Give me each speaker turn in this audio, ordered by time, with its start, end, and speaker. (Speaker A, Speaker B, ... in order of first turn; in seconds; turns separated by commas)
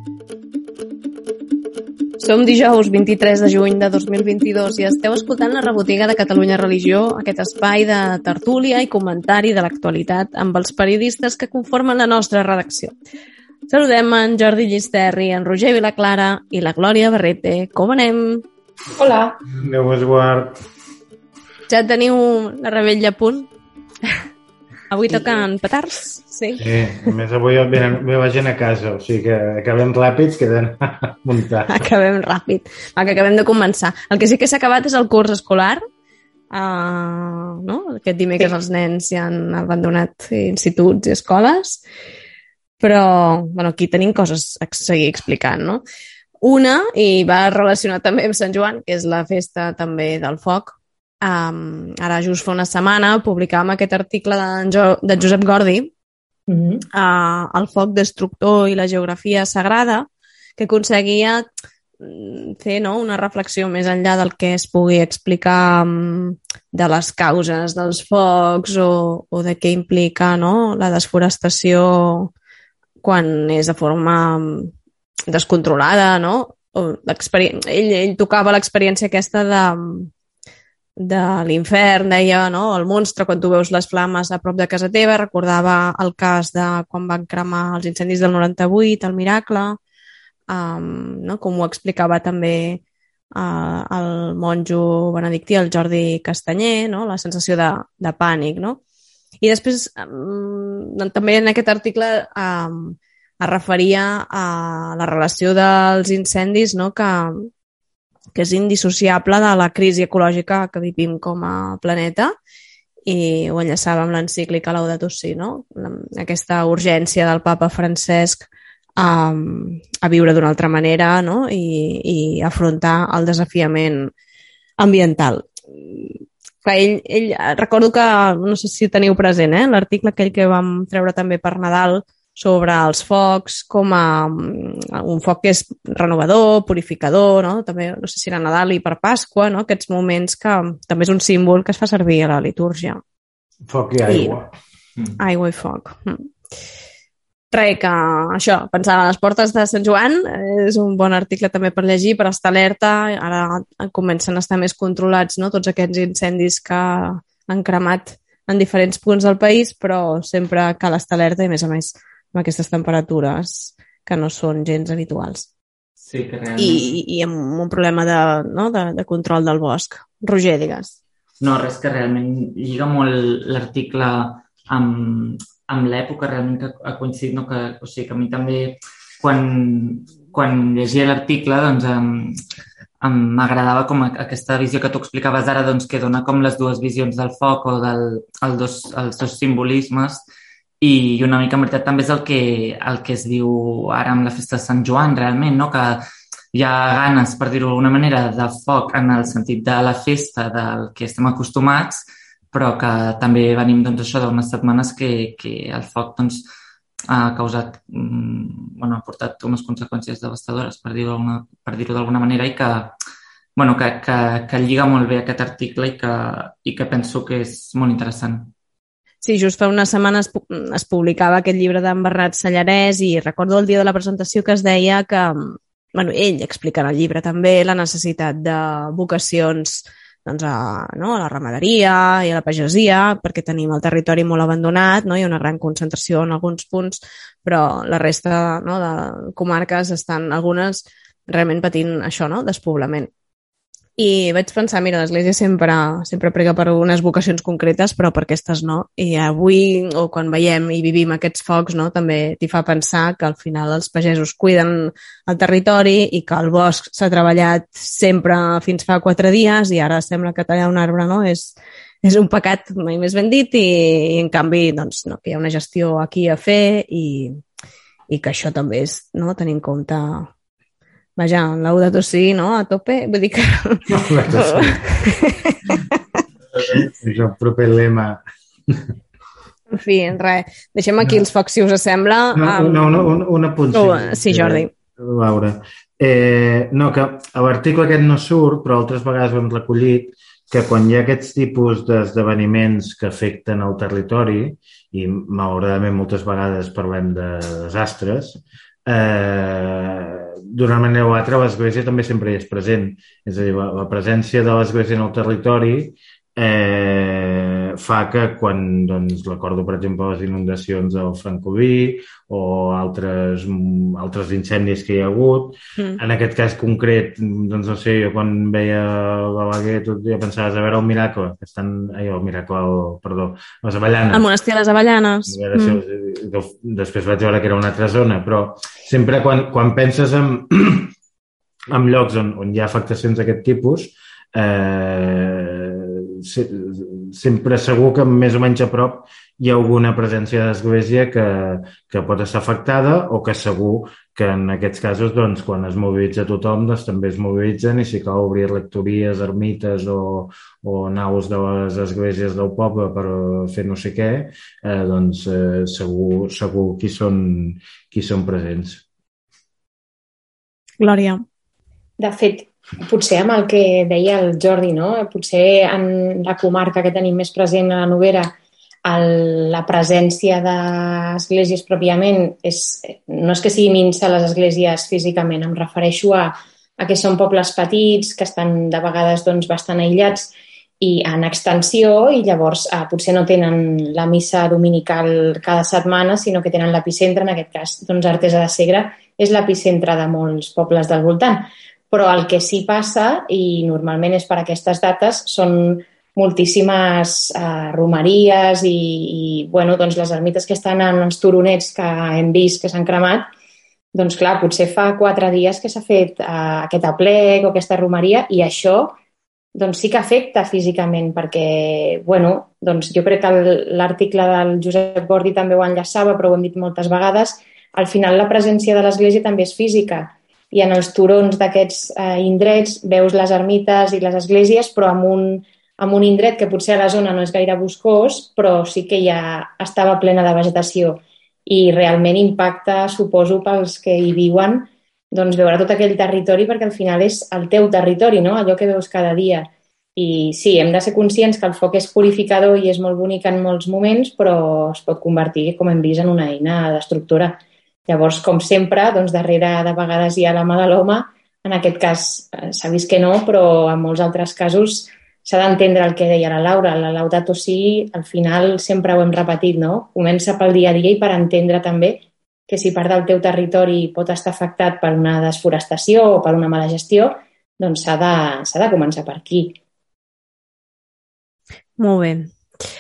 Speaker A: 2.2-12.9, Speaker A: 13.7-18.5, Speaker B: 19.0-19.4, Speaker C: 19.5-20.6, Speaker A: 21.7-23.5, Speaker A: 24.9-26.6, Speaker C: 26.6-31.8, Speaker A: 31.7-35.8, Speaker A: 36.5-41.8, Speaker A: 42.8-45.8, Speaker A: 46.4-55.9, Speaker B: 56.5-56.9, Speaker A: 56.9-61.5, Speaker A: 62.0-72.3, Speaker A: 73.0-74.7, Speaker A: 75.3-80.1, Speaker A: 81.0-89.8, Speaker A: 90.5-92.8, Speaker A: 93.4-98.8, Speaker A: 99.4-107.5, Speaker A: 108.3-112.3, Speaker A: 113.1-124.1, Speaker A: 124.8-143.0, Speaker C: 143.7-144.5, Speaker A: 144.1-144.4, Speaker A: 145.2-146.3, Speaker A: 147.5-165.5, Speaker D: 166.0-167.0, Speaker A: 166.6-171.0, Speaker D: 171.4-182.4, Speaker D: 183.0-190.3, Speaker D: 190.8-206.5, Speaker D: 207.1-213.0, Speaker D: 213.6-218.5, Speaker A: 219.2-243.1, Speaker A: 244.0-267.4, Speaker A: 268.1-270.3, Speaker A: 271.2-276.0, Speaker C: 273.9-275.0, Speaker C: 276.6-278.9, Speaker A: 279.7-283.1, Speaker C: 282.4-324.3, Speaker A: 283.7-284.7, Speaker A: 315.8-316.0, Speaker A: 324.1-325.8, Speaker C: 325.3-330.9, Speaker C: 331.7-358.8, Speaker A: 360.8-361.2, Speaker B: 362.0-368.3, Speaker B: 368.9-403.3, Speaker B: 403.9-408.9, Speaker B: 409.6-469.6, Speaker A: 471.8-472.4